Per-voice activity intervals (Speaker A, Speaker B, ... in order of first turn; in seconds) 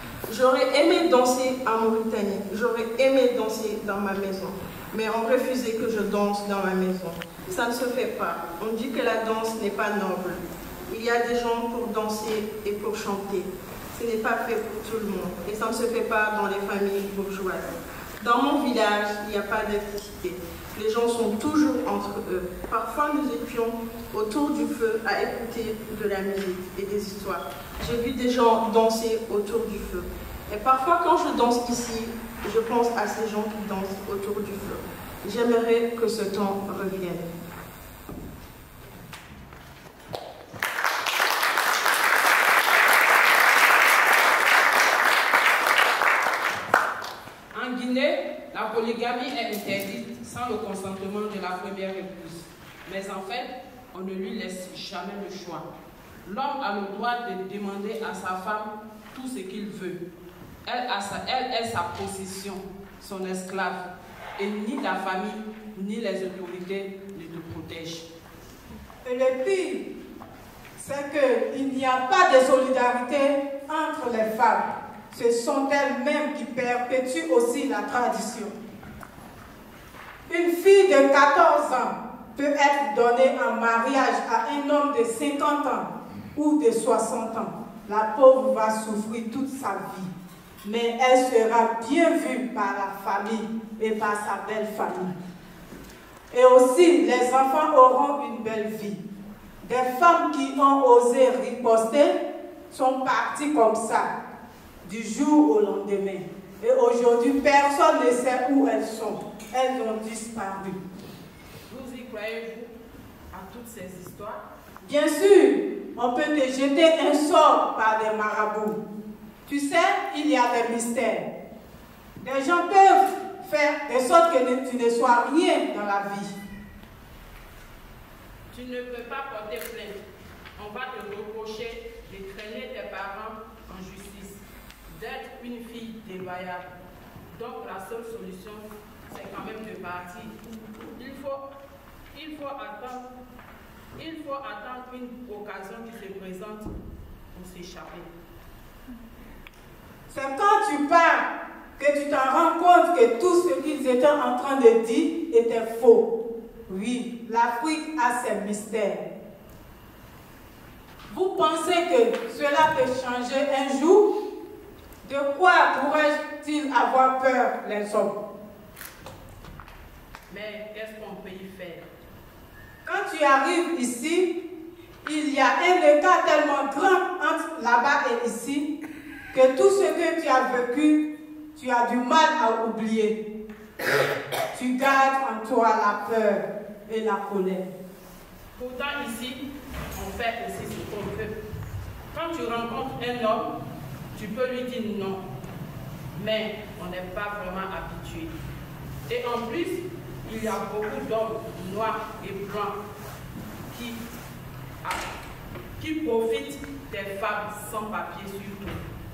Speaker A: 0.3-37.2
Speaker B: 47.5-55.7, 56.2-60.0, 60.7-63.9, 64.4-68.1, 111.7-112.7, 113.3-114.4, 128.5-130.0, 130.6-136.7, 137.3-141.4, 142.1-143.1, 144.0-146.7, 147.3-148.1, 170.3-171.8, 188.6-189.4, 189.9-191.3, 192.1-193.5, 194.2-195.2, 196.2-198.3, 199.1-202.8, 203.7-204.0, 205.8-208.8
Speaker C: 69.0-69.9, 70.8-78.5, 80.3-90.1, 90.6-95.2, 96.3-99.0, 99.6-102.2, 102.7-104.1, 104.8-110.8, 114.8-118.8, 119.5-121.3, 122.2-126.4, 150.1-151.3, 151.8-156.1, 156.7-159.0, 161.1-164.1, 165.0-168.2, 172.8-174.3, 175.0-178.7, 179.3-181.0, 181.6-183.2, 184.5-187.7